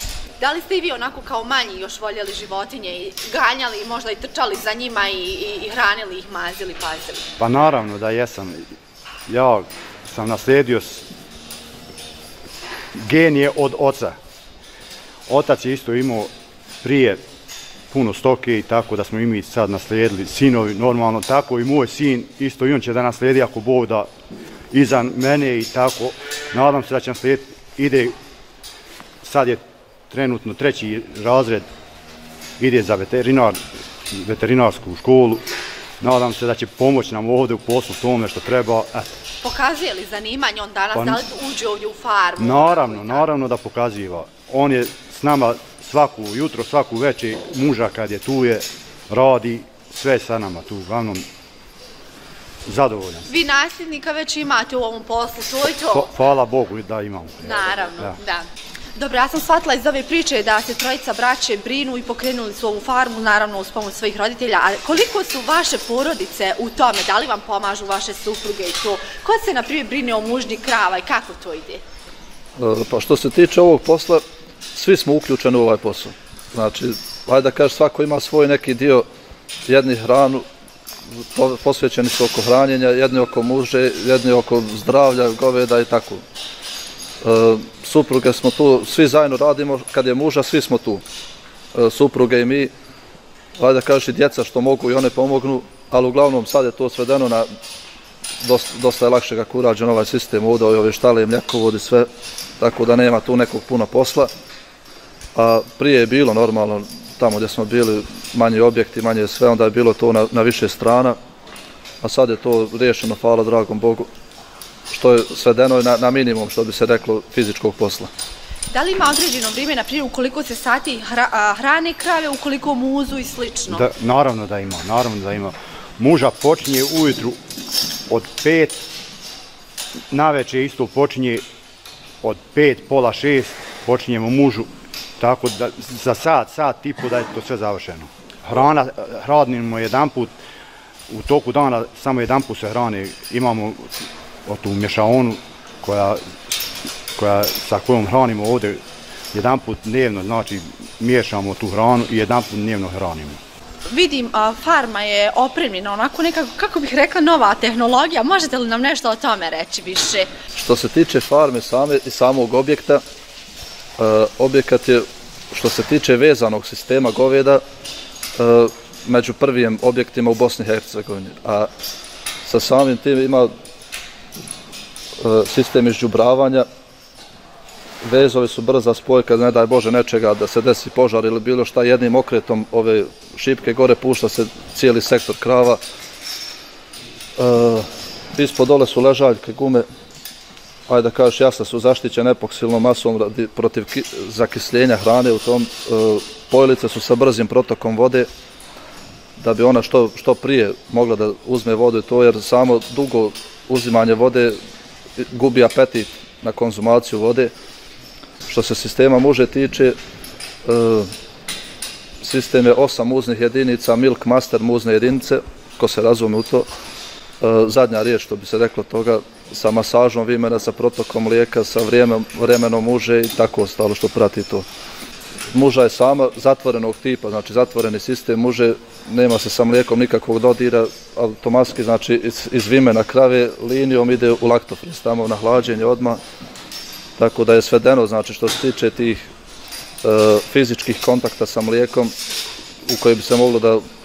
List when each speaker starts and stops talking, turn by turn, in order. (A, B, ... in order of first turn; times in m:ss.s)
0:00.4-0:07.2 A
0:07.4-0:08.6 B
0:09.3-0:11.1 B
0:12.9-0:14.1 B
0:15.3-0:16.3 B
0:16.8-0:17.2 B
0:17.9-0:24.1 B
0:24.7-0:28.1 B
0:29.2-0:31.7 B
0:32.6-0:33.6 B
0:34.1-0:35.4 B
0:36.0-0:39.1 B
0:39.4-0:43.2 A
0:40.9-0:41.2 B
0:42.4-0:51.3 B
0:52.6-0:53.3 B
0:53.3-0:56.1 A
0:55.8-0:58.2 B
0:57.4-1:11.8 A
1:12.6-1:14.2 C
1:14.7-1:19.0 C
1:19.7-1:20.4 C
1:21.3-1:26.2 C
1:27.2-1:31.0 C
1:31.7-1:32.7 C
1:33.6-1:37.5 C
1:38.4-1:42.1 C
1:42.6-1:44.3 C
1:45.3-1:51.2 C
1:52.0-1:54.1 C
1:54.9-1:58.1 C
1:58.7-2:03.8 A
2:03.7-2:07.4 B
2:08.1-2:08.8 B
2:10.1-2:11.4 B
2:12.2-2:14.7 B
2:15.2-2:20.3 B
2:21.1-2:23.9 B
2:24.4-2:26.3 B
2:27.2-2:28.8 B
2:29.3-2:33.4 B
2:33.9-2:40.3 A
2:40.5-2:43.0 C
2:44.0-2:47.6 C
2:48.4-2:51.7 C
2:52.4-2:53.5 C
2:55.2-2:56.6 C
2:58.0-3:05.8 C
3:07.4-3:09.8 C
3:10.9-3:18.3 C
3:19.4-3:24.6 C
3:25.2-3:27.5 C
3:28.4-3:30.0 C
3:30.6-3:31.1 C
3:32.2-3:36.7 C
3:37.4-3:44.6 C
3:45.5-3:56.2 C
3:57.2-3:59.3 C
4:00.0-4:02.1 C
4:02.8-4:03.8 C